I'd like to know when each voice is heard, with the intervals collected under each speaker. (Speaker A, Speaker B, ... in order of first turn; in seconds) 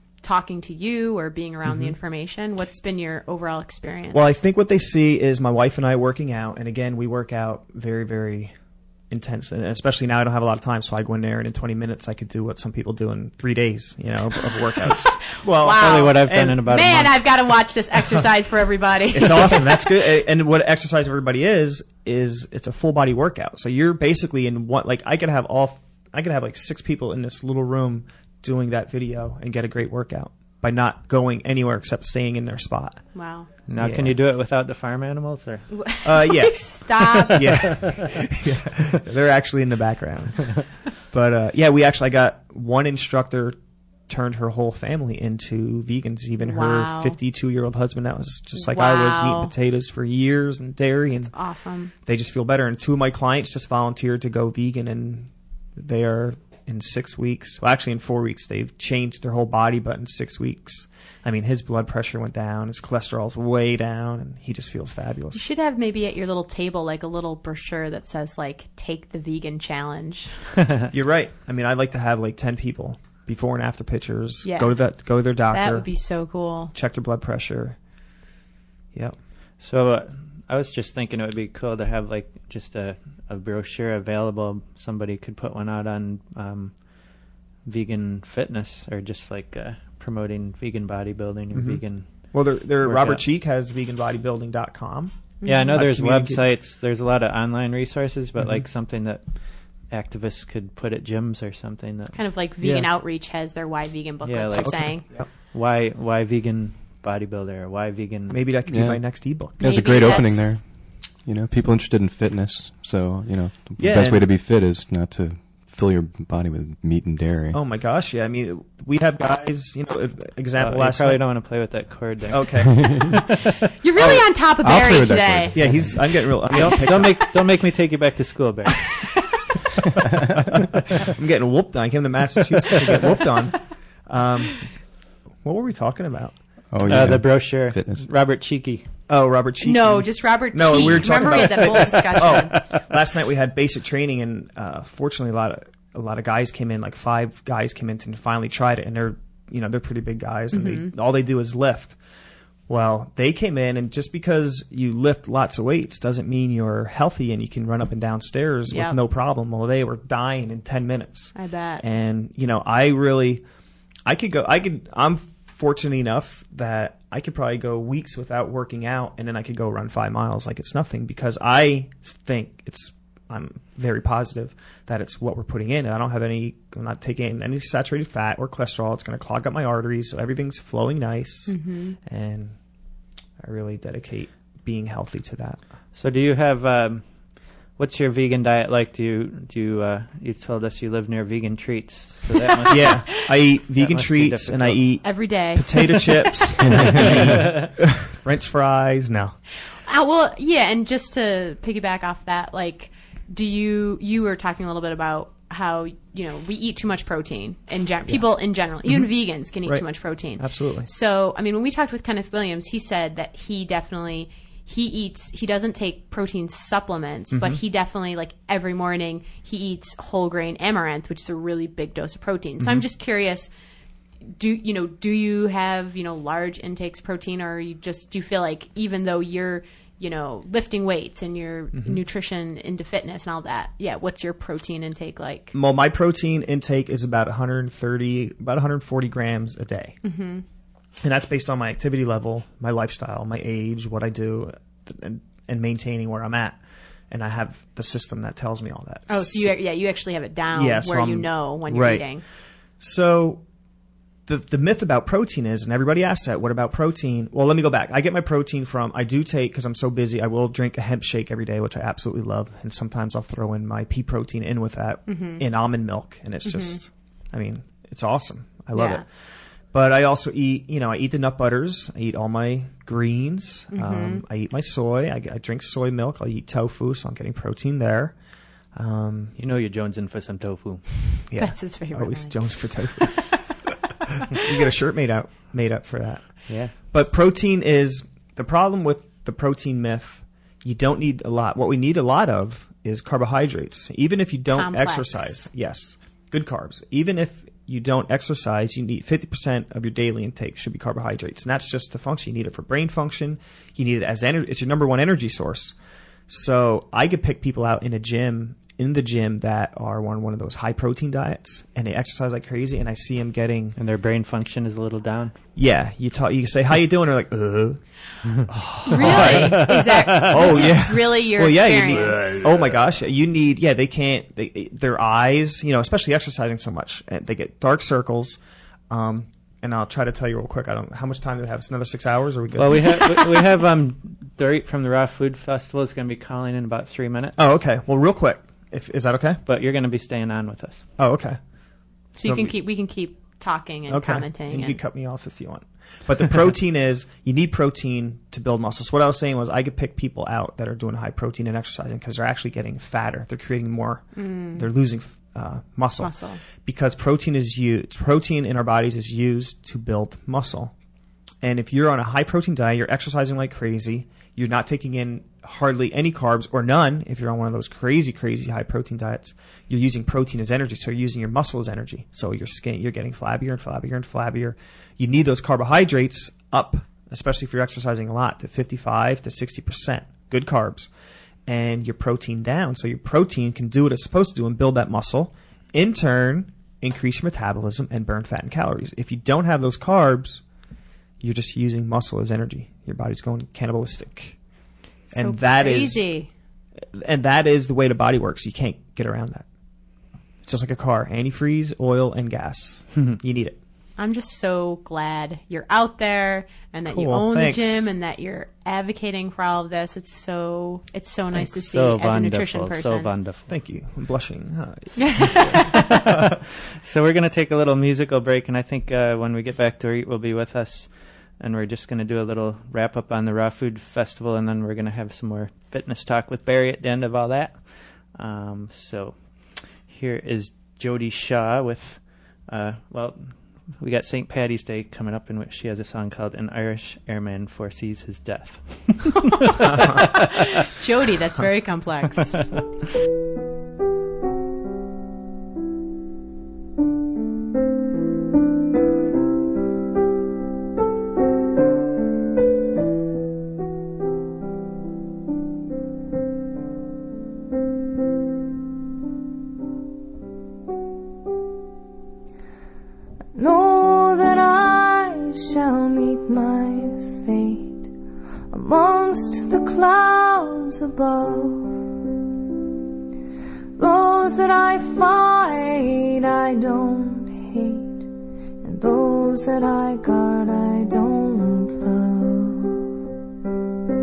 Speaker A: 0.2-4.4, 15.4-19.9, 33.1-33.5, 35.7-37.7, 46.4-47.2, 48.5-49.5, 51.3-51.9, 65.3-70.3, 74.4-74.8, 75.5-76.7, 95.4-95.8, 102.2-105.1, 109.6-110.6, 123.8-125.6, 139.6-142.6, 150.5-150.9, 158.7-159.0, 161.4-161.8, 181.5-182.0, 195.0-197.1, 199.8-223.5, 224.4-235.5, 240.0-240.4, 249.1-252.2, 265.1-265.4, 266.4-266.8, 268.7-269.0, 273.7-274.2, 281.4-283.4, 294.5-295.4, 318.9-322.5, 342.1-344.8, 354.2-354.7, 356.0-356.4, 395.1-396.3, 404.0-413.1, 415.0-415.8, 440.6-442.4
Speaker B: 1.6-2.0, 4.1-8.5, 9.1-16.6, 19.1-33.1, 33.8-34.2, 36.0-43.6, 44.1-51.3, 52.0-65.5, 70.9-75.9, 76.7-77.8, 91.5-96.5, 104.6-105.3, 108.3-109.9, 113.8-114.3, 117.5-121.2, 122.3-123.2, 124.0-124.3, 125.5-127.3, 130.4-134.7, 135.4-136.4, 139.1-152.0, 152.7-163.4, 164.1-182.6, 183.4-185.6, 192.7-199.4, 210.4-210.9, 217.3-217.6, 222.6-222.8, 231.7-232.0, 235.5-240.0, 241.0-246.6, 247.1-249.5, 250.5-252.1, 252.8-253.4, 254.3-269.1, 269.7-278.2, 278.7-279.4, 281.3-283.4, 284.3-305.8, 306.3-313.8, 315.6-317.8, 318.5-333.5, 337.4-339.4, 341.0-341.4, 342.2-342.5, 343.9-360.7, 361.4-380.9, 381.5-390.4, 391.2-394.4, 395.1-396.1, 396.9-399.5, 400.5-403.6, 406.9-407.9, 413.5-416.2
Speaker C: 15.7-17.2, 33.7-35.7, 37.1-37.9, 79.6-87.1, 87.7-93.2, 95.5-102.9, 104.2-108.4, 120.6-123.5, 126.5-129.0, 132.6-133.0, 136.8-138.8, 141.1-142.8, 185.9-187.1, 187.8-193.2, 193.8-194.8, 196.8-197.7, 279.4-281.1, 286.5-286.7, 313.8-315.4, 318.9-320.5, 332.6-337.4, 339.5-340.8, 411.3-413.5, 415.6-427.6, 428.1-429.2, 429.8-440.3
Speaker D: 108.7-117.6, 124.6-126.0, 136.7-138.1
Speaker E: 463.4-467.9, 468.5-471.8, 473.8-478.1, 478.6-482.9